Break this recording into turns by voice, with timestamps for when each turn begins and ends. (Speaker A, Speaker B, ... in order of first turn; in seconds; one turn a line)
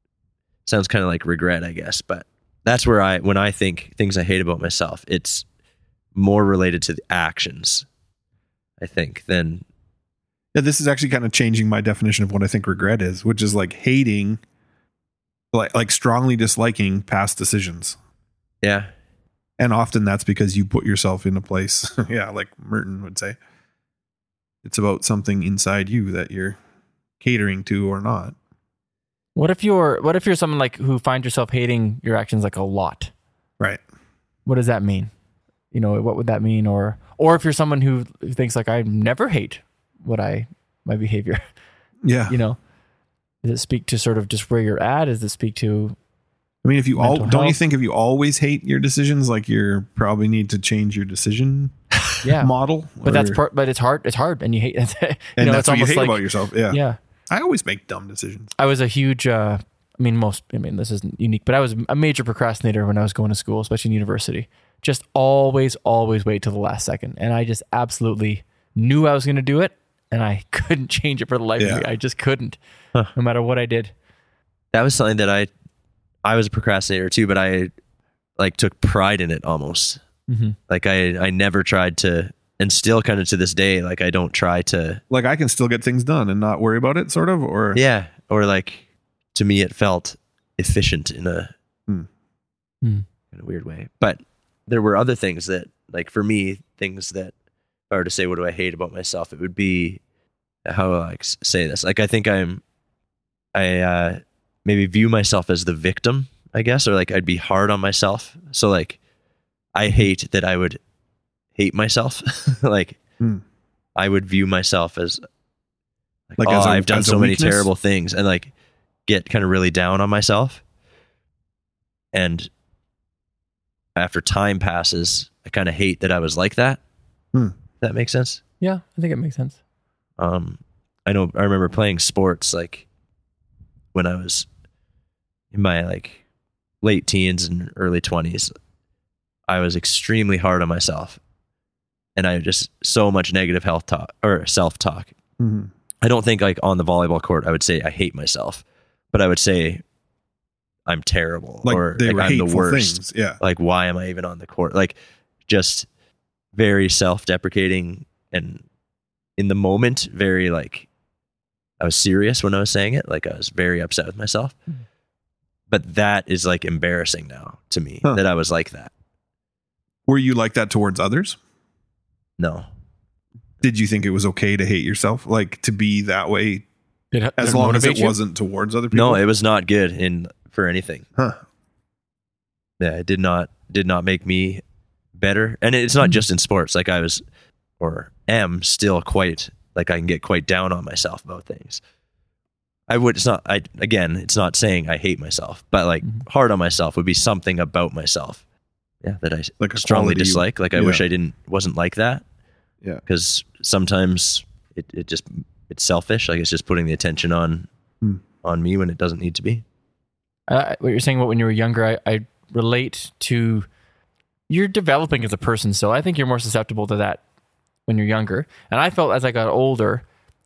Speaker A: 0.7-5.4
Speaker A: 6.1-7.8
Speaker A: 8.8-9.6
Speaker B: 10.5-14.4
Speaker B: 15.5-18.0
Speaker A: 18.6-18.9
Speaker B: 19.6-23.4
Speaker B: 24.6-26.6
Speaker B: 27.2-28.4
Speaker C: 29.4-33.1
Speaker C: 34.5-35.1
Speaker C: 35.7-41.4
Speaker B: 42.0-42.4
Speaker C: 42.3-42.6
Speaker C: 43.4-46.0
Speaker B: 46.6-51.7
Speaker C: 47.0-47.6
Speaker C: 52.2-52.5
Speaker B: 52.2-53.4
Speaker C: 53.0-57.0
Speaker B: 55.4-58.5
Speaker C: 58.5-72.6
Speaker B: 71.6-71.8
Speaker C: 73.1-73.9
Speaker A: 74.7-75.5
Speaker A: 76.2-77.7
Speaker A: 78.4-80.0
Speaker C: 80.3-80.5
Speaker A: 80.7-85.0
Speaker B: 85.1-87.8
Speaker A: 87.7-88.8
Speaker A: 89.3-91.5
Speaker A: 93.3-97.3
Speaker A: 97.9-100.0
Speaker A: 100.7-102.6
Speaker A: 103.5-109.0
Speaker A: 109.7-110.8
Speaker A: 111.5-113.0
Speaker A: 114.0-115.2
Speaker A: 116.3-118.5
Speaker B: 116.4-117.7
Speaker A: 119.1-120.6
Speaker A: 122.1-122.5
Speaker A: 124.0-126.8
Speaker A: 127.8-128.4
Speaker C: 128.6-129.6
Speaker A: 130.2-132.8
Speaker A: 133.9-134.5
Speaker A: 135.5-136.2
Speaker A: 136.8-138.5
Speaker A: 139.5-141.2
Speaker A: 142.2-145.1
Speaker B: 145.4-145.7
Speaker A: 146.0-149.8
Speaker A: 150.9-154.9
Speaker B: 151.6-153.4
Speaker A: 155.5-155.9
Speaker A: 156.5-158.6
Speaker A: 159.4-160.9
Speaker A: 161.8-164.5
Speaker A: 165.7-168.9
Speaker B: 170.1-171.4
Speaker A: 172.4-172.7
Speaker B: 173.6-176.6
Speaker C: 177.1-178.2
Speaker B: 177.4-179.2
Speaker A: 178.9-181.0
Speaker A: 182.8-184.6
Speaker A: 185.2-187.2
Speaker A: 187.8-191.8
Speaker A: 192.9-198.4
Speaker A: 199.0-202.2
Speaker B: 199.6-201.0
Speaker A: 203.1-207.7
Speaker A: 208.4-209.6
Speaker C: 210.5-213.7
Speaker C: 214.5-217.2
Speaker C: 217.9-220.0